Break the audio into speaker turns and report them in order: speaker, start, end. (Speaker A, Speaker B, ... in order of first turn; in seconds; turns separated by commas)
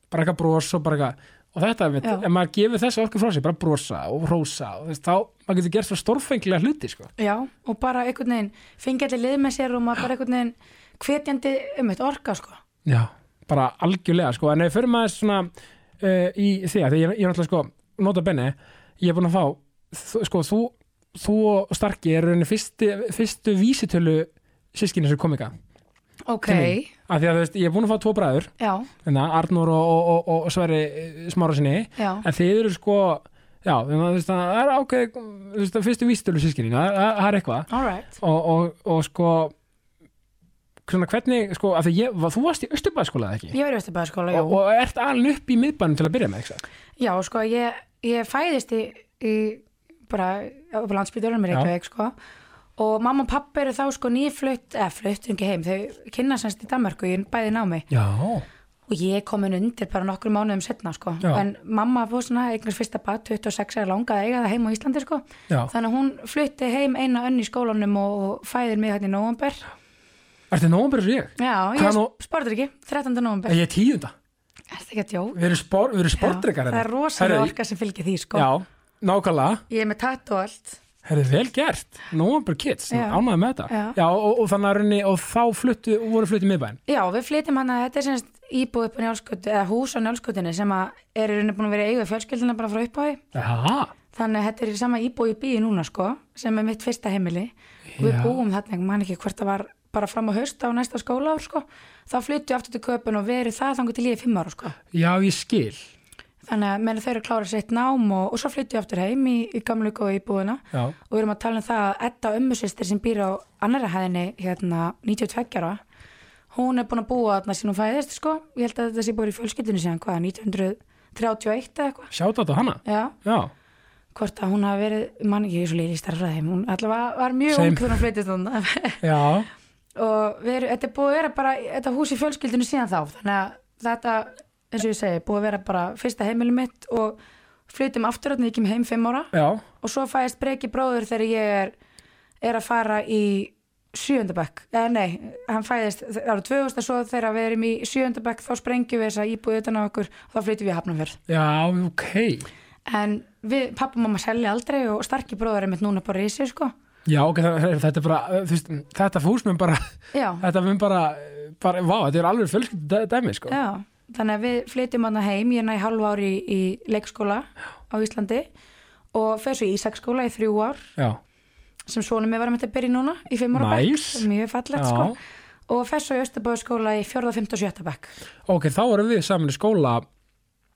Speaker A: 0.1-7.1, Speaker B: 7.2-12.6, Speaker A: 12.8-25.5, Speaker B: 26.3-26.9, Speaker A: 26.5-28.5, Speaker B: 28.6-28.9, Speaker A: 29.0-39.5, Speaker B: 32.0-32.2, Speaker B: 37.7-38.2, Speaker A: 40.9-43.5, Speaker B: 43.5-44.6, Speaker A: 44.3-46.6, Speaker B: 47.0-52.1, Speaker B: 52.8-57.9, Speaker A: 57.9-58.5, Speaker B: 58.9-69.7, Speaker A: 70.5-72.1, Speaker B: 71.4-73.6, Speaker A: 73.5-74.1, Speaker B: 74.7-75.4, Speaker A: 75.3-77.5, Speaker B: 76.2-78.5, Speaker A: 78.3-79.6, Speaker B: 79.7-80.8, Speaker A: 81.0-86.8, Speaker B: 82.9-84.0, Speaker B: 86.9-93.2, Speaker A: 93.3-93.9, Speaker B: 94.1-104.8, Speaker A: 97.9-98.4, Speaker A: 104.9-105.9, Speaker B: 106.4-115.8, Speaker B: 116.5-122.1, Speaker A: 122.1-123.5, Speaker B: 122.8-123.2, Speaker B: 124.1-129.0, Speaker A: 127.5-128.0, Speaker A: 129.0-129.5, Speaker B: 130.0-141.8, Speaker A: 139.3-139.7, Speaker B: 142.4-151.2, Speaker A: 151.3-152.5, Speaker B: 152.9-156.7, Speaker A: 157.1-163.6, Speaker B: 160.1-160.4, Speaker B: 163.5-168.5, Speaker B: 169.1-170.9, Speaker B: 171.9-175.1, Speaker A: 173.6-175.1, Speaker B: 175.7-178.1, Speaker A: 178.5-180.1